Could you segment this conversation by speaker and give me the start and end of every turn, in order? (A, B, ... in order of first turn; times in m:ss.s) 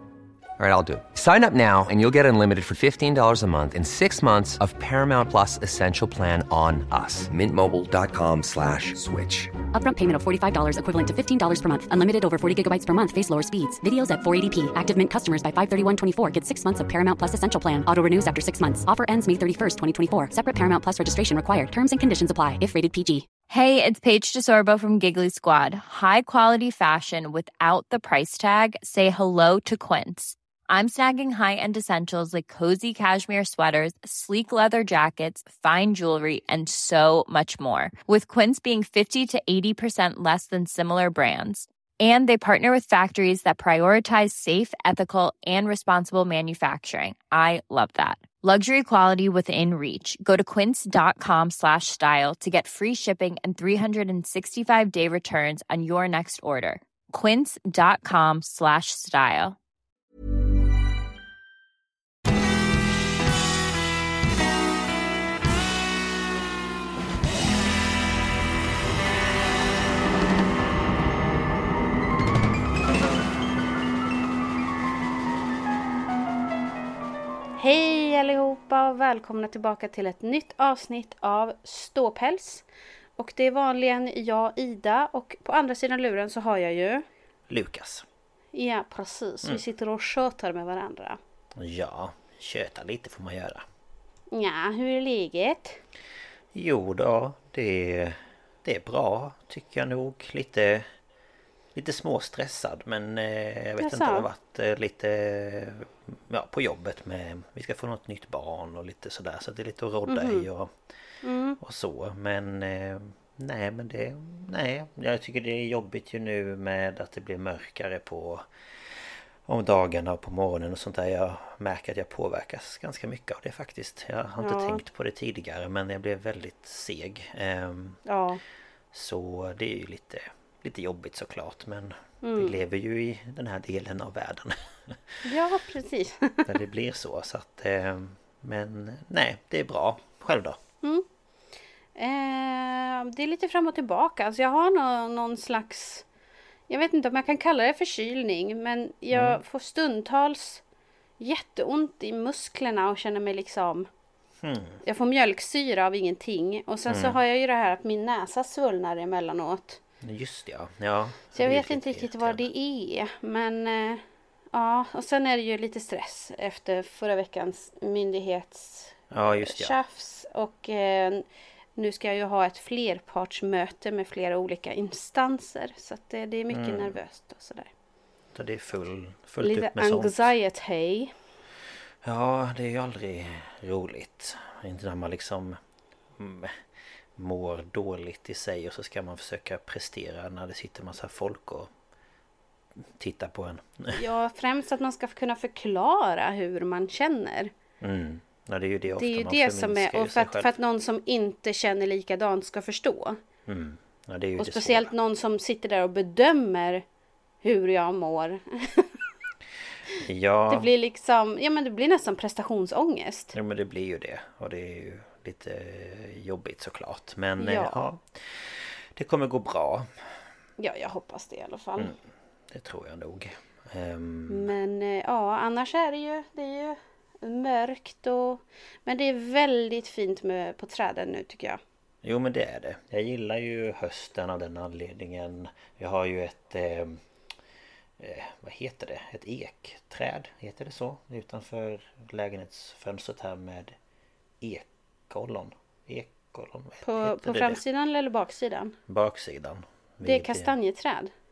0:00.6-0:09.5 A
0:09.7-0:23.3 B
0:23.5-0:59.6 C
1:17.6-1:22.6 D
1:23.2-1:27.0 D
1:27.5-1:28.0 E
1:28.5-1:31.2 D
1:31.6-1:33.6 E
1:34.3-1:35.8 D
1:36.5-1:40.9 E
1:41.7-1:50.7 E
1:43.8-1:44.3 D
1:50.1-1:50.5 D
1:51.2-1:51.6 D
1:51.6-2:08.0 E
2:04.4-2:04.8 D
2:08.0-2:08.4 D
2:08.9-2:15.2 E
2:12.2-2:12.6 D
2:15.2-2:16.5 D
2:16.4-2:20.6 E
2:22.0-2:26.0 D
2:26.7-2:30.6 D
2:29.1-2:29.4 E
2:31.2-2:33.9 D
2:34.4-2:34.8 E
2:34.8-2:39.8 D
2:36.9-2:37.2 E
2:40.0-2:42.4 E
2:41.3-2:51.2 D
2:49.1-2:49.8 E
2:51.8-2:57.7 D
2:56.5-2:57.0 E
2:58.3-3:00.3 E
2:59.4-3:01.1 D
3:02.0-3:05.6 E
3:06.2-3:06.6 E
3:07.2-3:11.7 E
3:13.0-3:14.0 E
3:13.9-3:17.5 D
3:17.8-3:20.5 E
3:18.9-3:23.2 D
3:23.5-3:24.9 E
3:24.4-3:26.8 D
3:27.4-3:29.0 D
3:30.0-3:30.7 E
3:30.5-3:33.3 D
3:33.3-3:39.9 E
3:37.4-3:37.8 D
3:40.6-3:41.9 D
3:42.5-3:44.5 E
3:44.3-3:51.6 D
3:52.0-3:57.0 E
3:58.0-4:03.7 E
4:04.4-4:07.6 E
4:06.8-4:08.8 D
4:08.9-4:10.5 E
4:10.0-4:11.1 D